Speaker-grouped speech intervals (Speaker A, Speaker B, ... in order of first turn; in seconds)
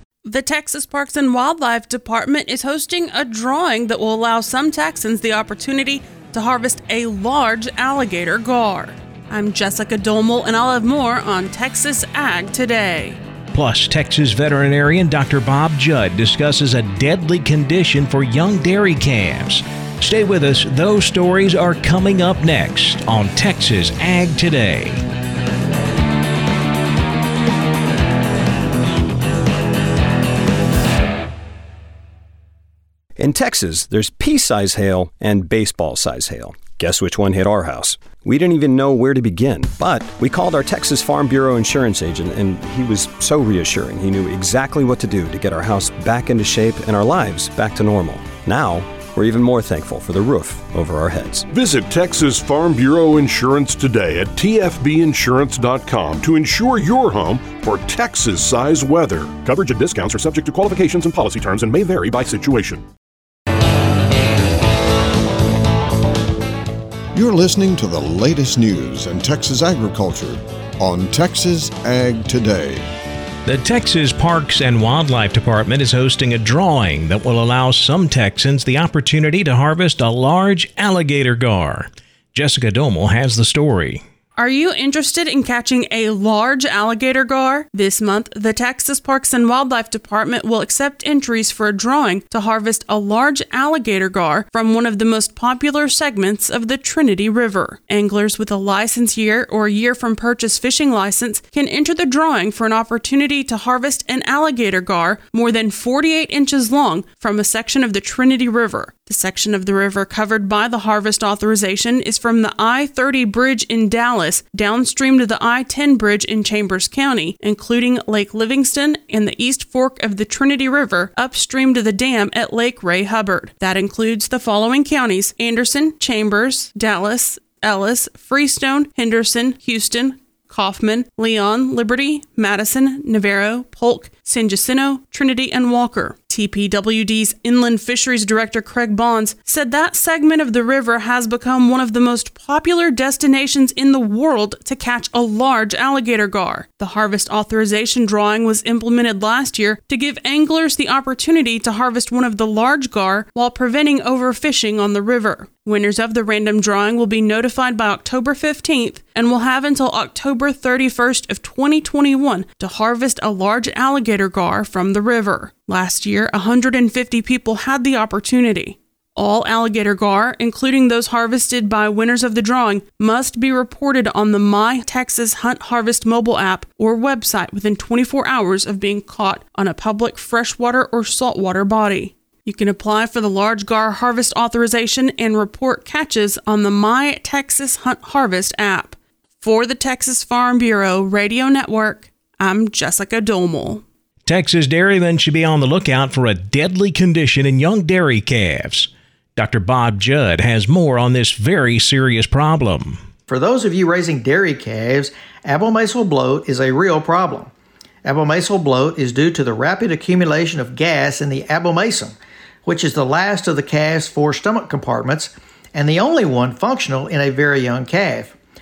Speaker A: 0.2-13.2, 84.4-193.8
Speaker B: 13.5-25.0, 73.5-84.0, 194.2-203.0
Speaker C: 33.2-51.5
Speaker D: 51.5-62.8
Speaker E: 67.1-72.9
Speaker F: 203.3-207.5, 208.0-218.3